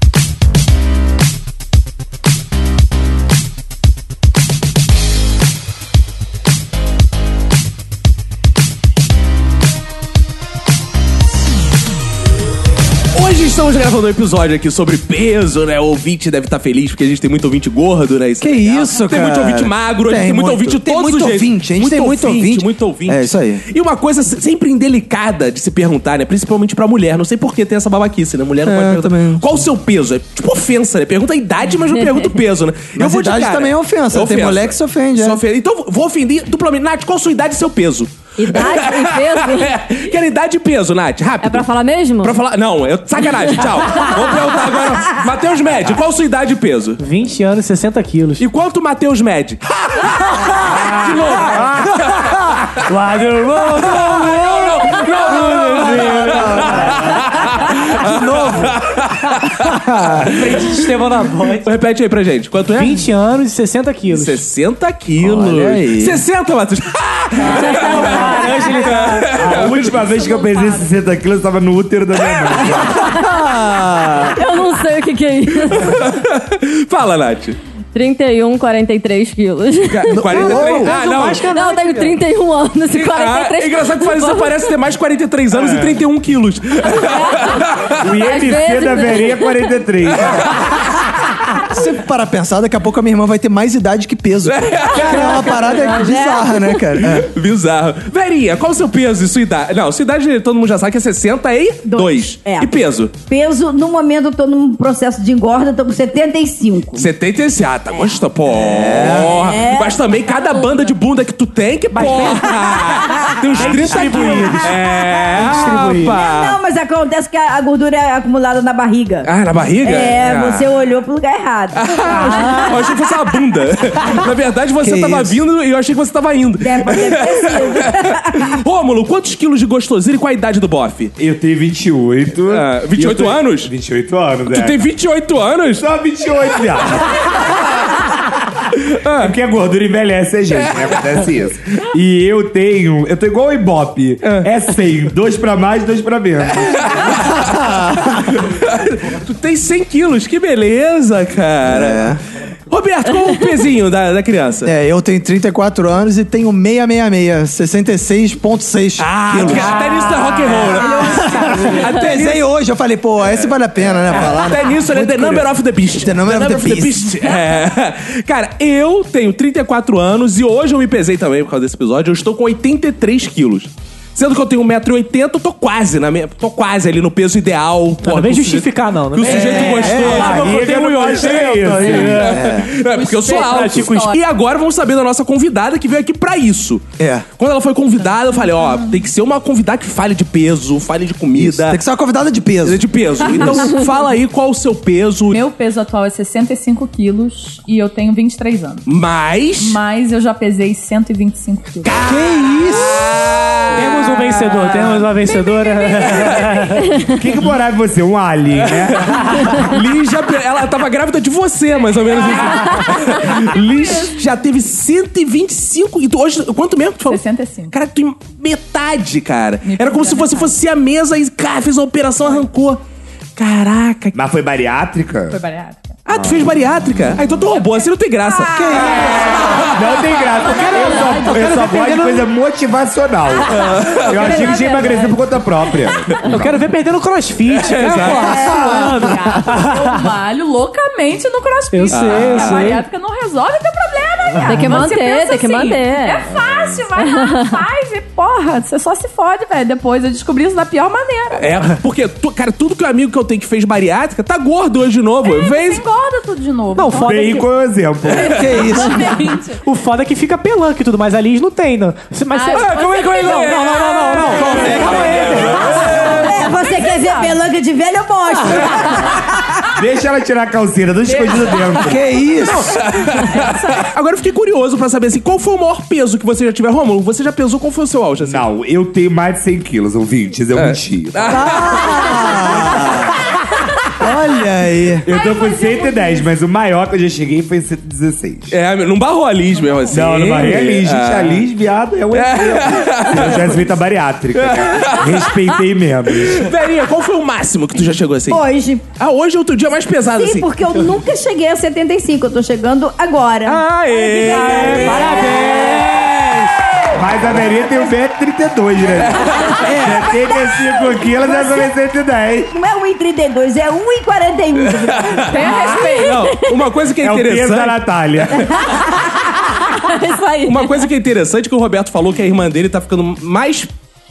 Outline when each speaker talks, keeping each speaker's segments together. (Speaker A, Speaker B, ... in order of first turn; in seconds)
Speaker A: 13.1-41.7, 42.2-47.0, 48.4-52.7, 53.7-60.9, 61.6-63.1, 64.1-70.0, 75.6-77.6, 79.9-81.4, 82.9-87.9, 90.2-90.6, 94.4-95.5, 97.0-103.2, 107.0-116.6, 119.2-120.8, 121.7-131.1, 132.5-133.7, 134.5-135.9, 138.8-139.3, 144.2-144.5, 146.6-147.4, 148.0-152.1, 152.7-154.7, 159.0-162.5, 163.4-191.8, 192.6-195.4, 198.8-199.8, 201.8-204.9, 206.0-206.4, 208.6-222.8, 223.4-224.2, 226.1-229.8, 233.6-234.2, 237.6-238.4, 241.9-242.8, 251.4-255.8, 262.5-266.3, 272.7-278.4, 280.5-282.9, 288.5-291.4, 292.1-293.6, 294.4-295.4, 296.2-298.4, 299.0-300.5, 303.4-306.4, 309.0-309.6, 314.9-318.5, 320.4-323.7
Speaker B: 18.4-23.6, 28.6-29.5, 32.9-35.4, 56.0-57.1, 65.2-66.2, 73.0-74.4, 80.1-81.0, 91.5-97.3, 108.6-109.4, 124.8-125.4, 147.4-148.2, 151.7-152.2, 154.6-167.2, 179.2-180.4, 182.3-182.7, 187.0-187.3, 191.3-193.7, 202.0-203.3, 228.5-229.3, 258.2-259.1, 264.3-265.3, 271.8-272.7, 281.3-283.2, 284.0-285.0, 309.6-310.1
Speaker C: 38.4-39.8, 41.4-42.3, 74.2-76.0, 77.9-80.2, 81.5-84.6, 87.0-89.5, 244.4-246.3, 246.9-247.6, 315.6-316.4, 319.6-320.8
Speaker D: 47.0-48.5, 50.3-61.7, 62.7-64.4, 67.4-69.4, 80.3-82.2, 111.9-116.2, 122.1-122.8, 159.4-160.0, 178.0-182.4, 183.3-184.1, 203.7-206.8, 228.7-229.6, 230.4-232.3, 236.2-240.0, 241.7-242.8, 256.7-257.4, 259.6-266.3, 304.2-306.4
Speaker E: 68.2-68.9, 69.8-70.9, 182.8-184.2, 188.0-189.0, 193.3-193.8, 195.3-198.8, 199.6-201.9, 204.5-207.0, 211.9-214.2, 217.1-217.7, 219.6-220.5, 225.3-226.0, 227.4-231.5, 234.0-236.4, 238.1-251.6, 255.2-257.4, 258.1-259.6, 262.3-267.4, 271.0-271.8, 273.1-273.9, 282.0-282.5, 285.0-286.3, 289.6-289.9, 315.2-316.4
Speaker F: 69.3-73.1, 85.5-86.0, 88.0-90.5, 131.2-134.8, 135.8-137.7, 139.2-147.3, 179.9-182.3, 207.1-209.6, 224.1-225.4, 226.1-226.4, 229.7-236.6, 257.0-258.6, 269.7-272.1, 278.2-281.7, 285.0-288.6, 289.9-296.5, 306.9-312.5, 317.0-318.6
Speaker G: 95.0-96.6, 101.9-102.7, 103.3-107.1, 109.2-110.0, 112.7-115.4, 116.1-119.3, 119.8-123.1, 126.6-128.5, 160.7-161.7, 266.2-269.6, 298.3-298.8, 300.2-307.0, 309.6-311.7, 312.5-315.5